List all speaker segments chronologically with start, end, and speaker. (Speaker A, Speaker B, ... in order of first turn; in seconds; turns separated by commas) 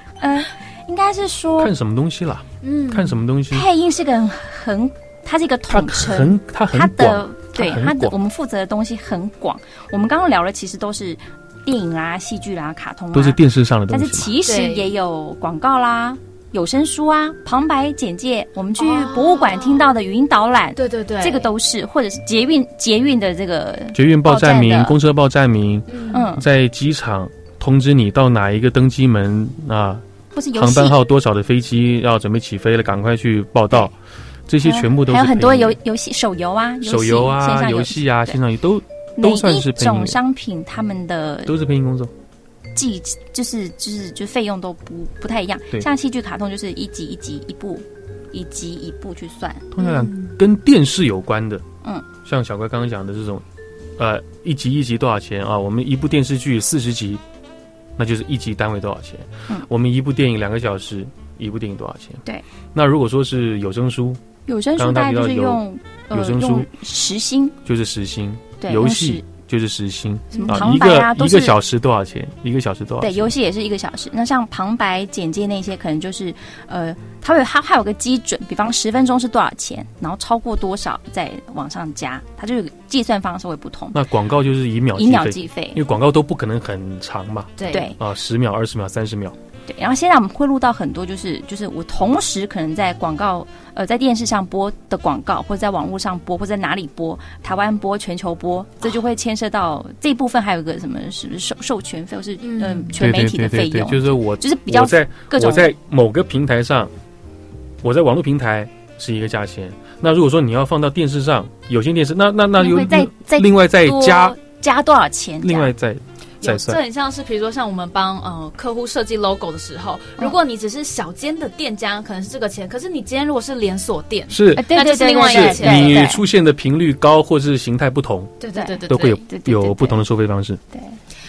Speaker A: 0.2-1.7, Speaker B: 1.6-3.7, Speaker C: 2.6-3.2, Speaker A: 3.5-25.0, Speaker B: 5.7-8.1, Speaker B: 13.1-14.3, Speaker C: 14.4-14.9, Speaker C: 18.8-19.8, Speaker C: 20.8-21.5, Speaker B: 23.9-33.9, Speaker C: 25.9-26.3, Speaker A: 26.1-26.4, Speaker A: 30.3-31.0, Speaker B: 34.5-35.8, Speaker A: 34.6-38.4, Speaker B: 36.8-40.2, Speaker A: 39.2-41.5, Speaker B: 41.5-42.1, Speaker A: 42.7-49.6, Speaker B: 49.7-51.6, Speaker C: 49.8-50.4, Speaker B: 52.2-53.4, Speaker B: 54.0-57.2, Speaker B: 58.0-62.2, Speaker B: 62.7-64.2, Speaker A: 64.5-67.5, Speaker B: 64.8-66.7, Speaker B: 67.6-73.3, Speaker A: 68.6-69.2, Speaker C: 70.3-70.7, Speaker A: 70.3-71.6, Speaker A: 73.0-84.0, Speaker B: 83.9-89.3, Speaker A: 84.9-85.8, Speaker C: 87.6-87.9, Speaker A: 87.7-88.0, Speaker A: 89.7-105.7, Speaker C: 102.4-103.0, Speaker B: 103.0-106.9, Speaker B: 107.8-114.4, Speaker A: 112.5-115.7, Speaker B: 115.4-116.8, Speaker C: 116.4-126.1, Speaker B: 124.3-124.7, Speaker A: 124.5-126.2, Speaker B: 125.2-128.4, Speaker C: 128.4-129.2, Speaker A: 128.5-130.0, Speaker B: 128.9-130.6, Speaker A: 130.7-131.0